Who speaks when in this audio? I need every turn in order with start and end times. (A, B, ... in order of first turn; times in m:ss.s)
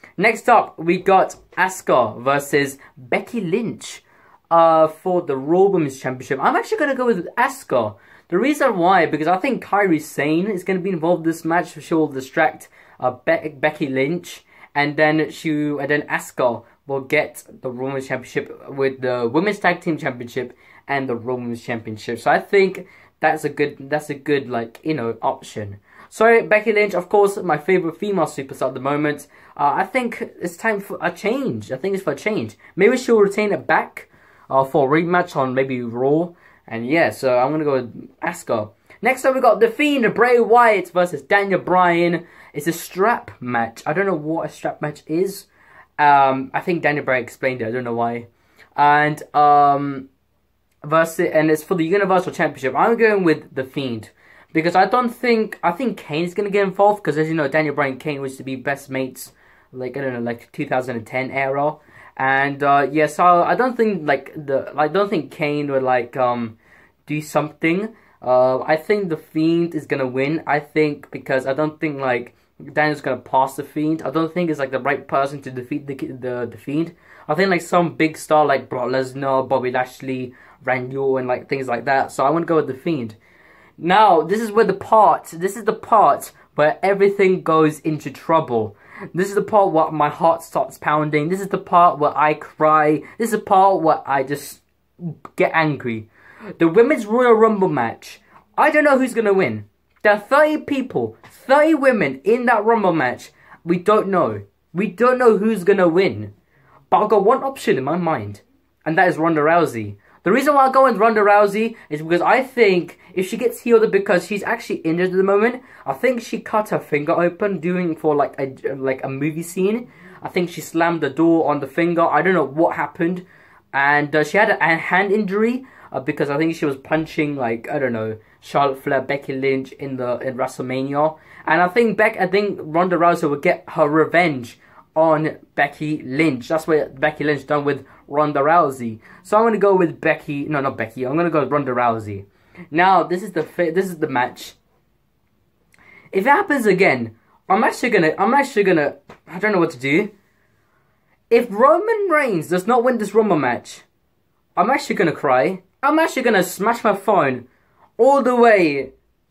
0:00.2-0:50.1 A
0:50.8-1:06.6 A
1:07.1-1:23.2 A
1:23.8-1:36.1 A
1:36.6-1:46.3 A
1:46.9-2:24.6 A
2:26.1-2:30.1 A
2:31.3-2:33.8 A
2:34.6-2:37.4 A
2:38.0-2:38.9 A